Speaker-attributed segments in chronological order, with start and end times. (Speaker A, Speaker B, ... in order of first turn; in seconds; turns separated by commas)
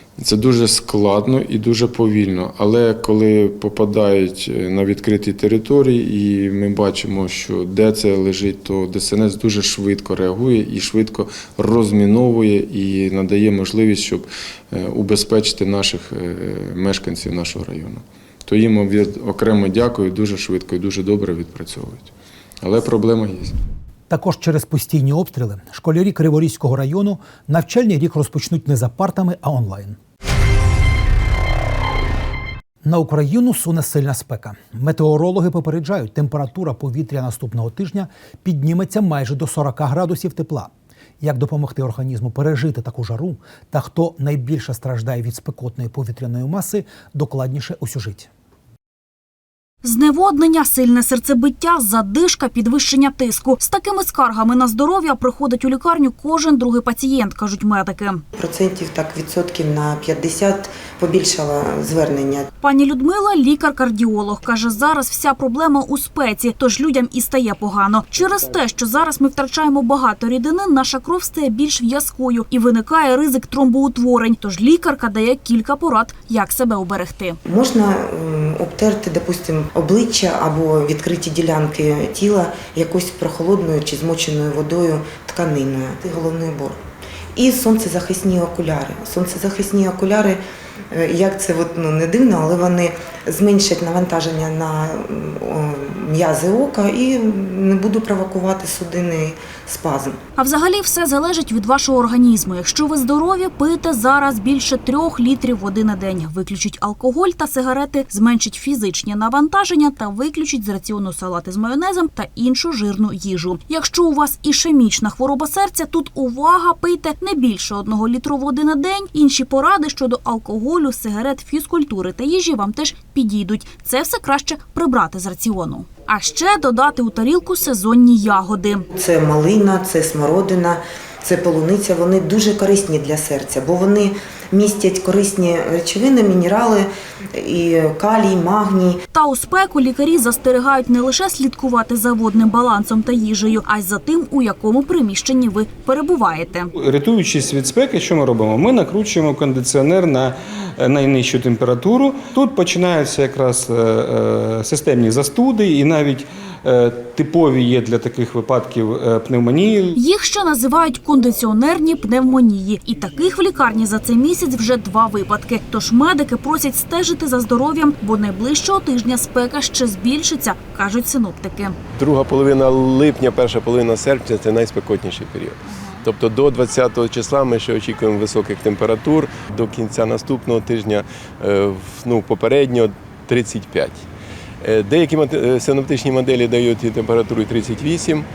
Speaker A: 0.2-22.1, Speaker A: 22.6-23.5, Speaker B: 24.1-30.0, Speaker B: 32.8-40.7, Speaker B: 41.2-48.3, Speaker C: 49.8-58.2, Speaker D: 58.4-62.5, Speaker C: 62.6-77.4, Speaker D: 77.5-86.8, Speaker D: 87.4-100.2, Speaker C: 100.4-128.9, Speaker D: 129.0-139.0, Speaker C: 139.1-146.7, Speaker E: 146.8-160.0, Speaker C: 159.9-171.8, Speaker F: 172.0-184.1, Speaker C: 175.7-176.0, Speaker F: 184.6-188.3